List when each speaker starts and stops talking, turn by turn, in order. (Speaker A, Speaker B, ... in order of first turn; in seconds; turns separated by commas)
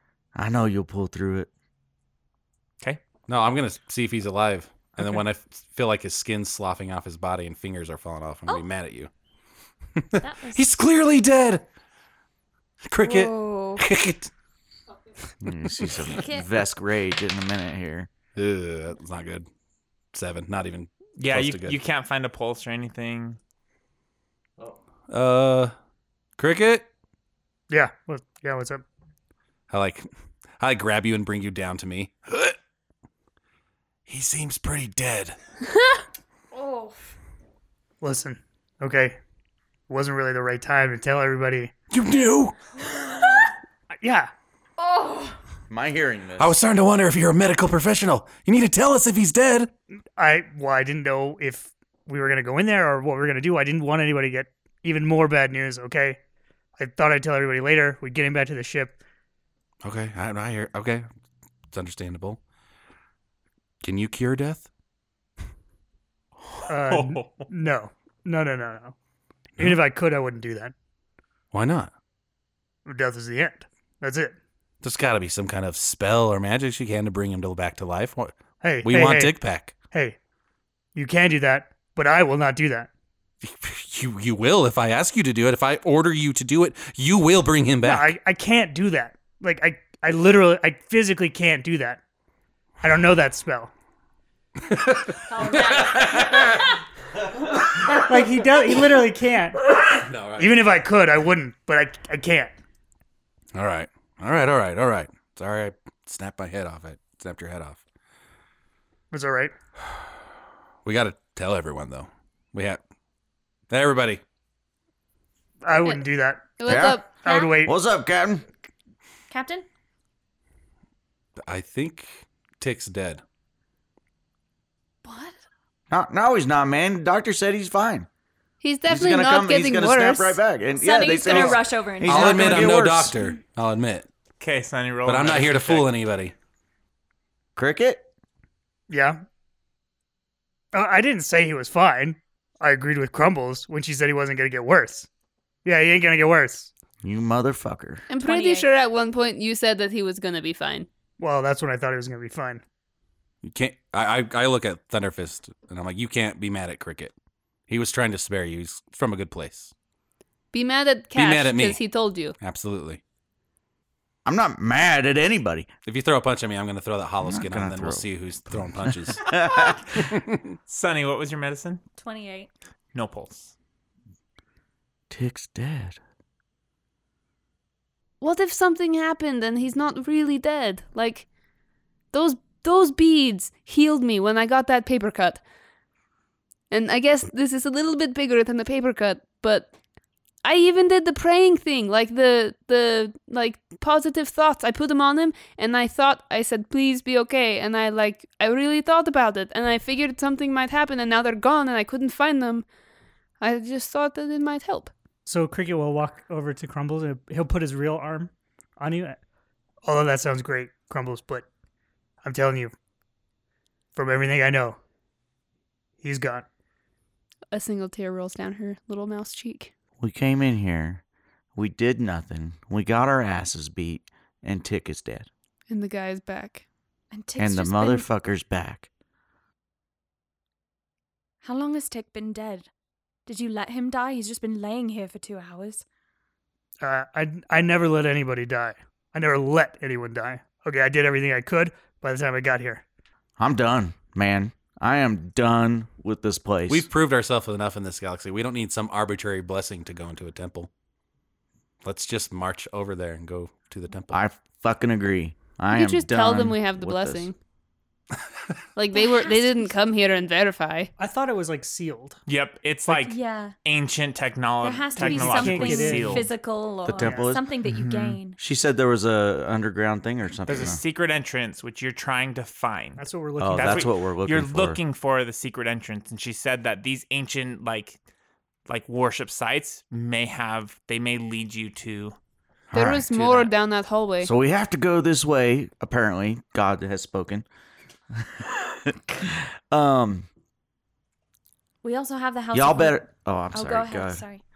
Speaker A: 0.3-1.5, Speaker B: 3.3-9.1, Speaker B: 10.0-11.6, Speaker C: 10.2-10.6, Speaker B: 12.8-14.3, Speaker C: 13.0-13.8, Speaker A: 15.4-18.1, Speaker B: 15.4-15.9, Speaker C: 16.1-16.5, Speaker B: 18.3-19.5, Speaker B: 20.1-21.8, Speaker D: 21.2-23.4, Speaker B: 25.1-25.7, Speaker B: 26.4-26.9, Speaker E: 27.7-28.8, Speaker B: 29.7-30.1, Speaker B: 30.6-32.6, Speaker B: 34.1-35.4, Speaker C: 36.5-37.0, Speaker E: 38.0-39.2, Speaker E: 39.9-41.7, Speaker B: 41.9-42.5, Speaker E: 44.0-44.3, Speaker C: 44.8-45.4, Speaker A: 45.7-46.5, Speaker B: 46.4-49.7, Speaker E: 50.2-56.2, Speaker E: 56.8-59.0, Speaker B: 59.8-61.1, Speaker B: 61.7-62.4, Speaker B: 63.8-64.7, Speaker D: 66.5-67.5, Speaker E: 66.7-68.9, Speaker E: 69.6-70.7, Speaker B: 71.5-71.9, Speaker E: 72.8-74.3, Speaker B: 74.8-79.7, Speaker E: 78.6-79.3, Speaker E: 80.9-82.9, Speaker B: 83.4-88.1, Speaker E: 87.8-92.0, Speaker E: 92.8-93.7, Speaker B: 94.7-96.7, Speaker C: 95.3-96.7, Speaker E: 97.9-99.7, Speaker B: 100.0-100.6, Speaker E: 100.3-102.5, Speaker B: 103.5-107.8, Speaker E: 109.1-109.5, Speaker B: 110.8-112.8, Speaker B: 113.7-114.2, Speaker E: 115.6-117.8, Speaker F: 116.6-117.2, Speaker A: 116.7-117.1, Speaker A: 117.6-118.4, Speaker C: 119.3-119.7, Speaker B: 121.4-123.2, Speaker C: 125.0-125.3, Speaker A: 125.9-128.1, Speaker F: 128.6-130.4, Speaker A: 128.9-133.1, Speaker C: 130.7-132.8, Speaker B: 132.0-134.1, Speaker D: 134.4-135.9, Speaker B: 135.1-136.3, Speaker A: 137.6-138.1, Speaker E: 138.9-139.2, Speaker E: 140.7-145.1, Speaker E: 145.6-146.7, Speaker A: 147.0-148.1, Speaker F: 148.1-150.9, Speaker C: 148.2-148.7, Speaker E: 151.2-152.6, Speaker B: 153.4-157.1, Speaker B: 157.7-159.7, Speaker F: 160.5-162.3, Speaker B: 161.1-161.8, Speaker B: 162.4-163.0, Speaker A: 164.2-165.7, Speaker B: 165.8-169.3, Speaker A: 167.2-168.1, Speaker A: 168.6-169.8, Speaker B: 170.0-170.6, Speaker D: 170.7-171.8, Speaker C: 172.0-172.5, Speaker D: 172.9-173.5, Speaker A: 175.1-176.0, Speaker F: 178.2-181.2, Speaker F: 182.1-185.4, Speaker F: 186.7-189.7, Speaker F: 190.4-202.7, Speaker F: 203.4-204.9, Speaker E: 205.2-209.2, Speaker E: 209.8-211.4, Speaker E: 212.2-212.7, Speaker E: 213.9-214.8, Speaker E: 216.0-216.4, Speaker F: 217.5-219.7, Speaker A: 220.0-221.0, Speaker A: 221.6-225.3, Speaker F: 225.7-226.6, Speaker C: 227.1-228.1, Speaker A: 227.4-228.9, Speaker C: 231.4-232.7, Speaker C: 233.2-235.8, Speaker E: 236.8-242.8, Speaker A: 243.4-246.9, Speaker B: 246.7-250.7, Speaker B: 251.8-254.2, Speaker A: 254.1-257.3, Speaker F: 255.7-257.3, Speaker F: 258.8-260.9, Speaker C: 258.9-259.7, Speaker E: 261.0-262.2, Speaker D: 262.3-266.3, Speaker C: 262.9-263.5, Speaker C: 264.6-268.4, Speaker E: 265.0-266.3, Speaker A: 266.8-267.4, Speaker E: 266.9-267.3, Speaker D: 267.6-268.2, Speaker A: 268.4-270.8, Speaker D: 270.4-278.0, Speaker E: 273.0-273.9, Speaker A: 273.4-274.8, Speaker D: 278.7-282.2, Speaker A: 282.7-283.1, Speaker F: 282.7-284.3, Speaker D: 283.1-283.5, Speaker A: 284.2-287.4, Speaker A: 288.1-290.3, Speaker C: 291.8-294.4, Speaker A: 292.5-294.2